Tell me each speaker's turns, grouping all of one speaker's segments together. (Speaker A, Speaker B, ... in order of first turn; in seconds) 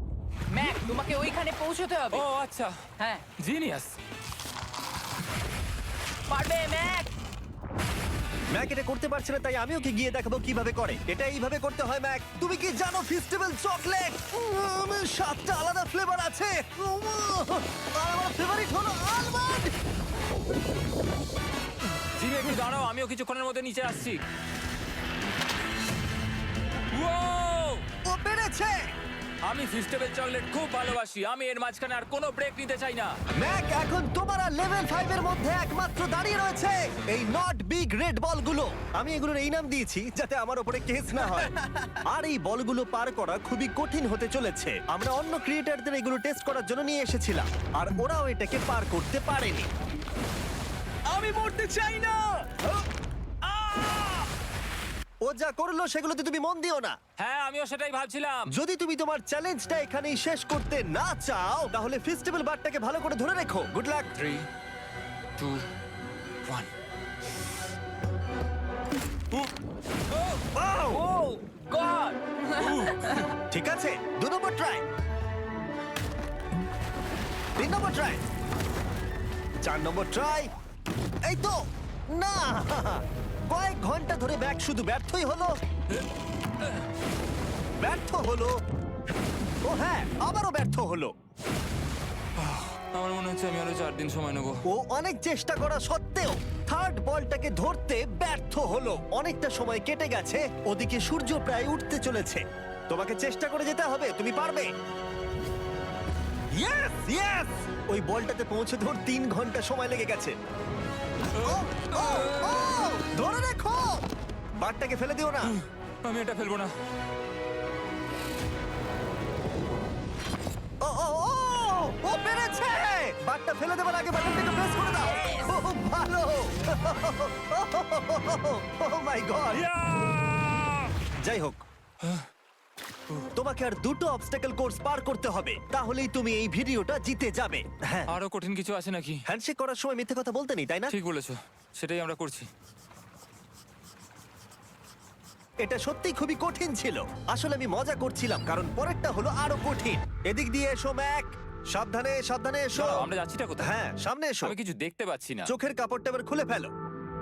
Speaker A: 0.5-2.2, 3.0-3.2, 6.3-7.1, 70.9-73.3, 125.2-125.5
Speaker B: 2.1-2.7, 3.4-4.0, 22.2-24.2, 26.9-27.9, 29.4-33.2, 57.2-58.5, 64.2-64.5, 65.4-65.7, 70.1-70.5, 72.6-73.2, 92.4-94.6, 111.4-112.8, 115.4-116.7, 129.5-130.9, 138.1-139.2, 140.9-142.5, 152.8-153.7, 154.4-155.5
Speaker C: 8.5-19.7, 28.1-28.9, 33.4-49.7, 55.2-57.0, 58.5-64.1, 70.6-71.0, 73.5-74.8, 77.6-78.2, 79.6-80.5, 81.2-85.6, 87.8-88.6, 89.7-91.1, 94.7-104.7, 106.5-110.3, 111.4-115.5, 120.8-129.7, 131.2-131.6, 133.4-138.1, 139.3-140.9, 145.6-153.1, 153.6-154.5, 155.5-156.7
Speaker D: 51.1-52.8, 53.5-54.3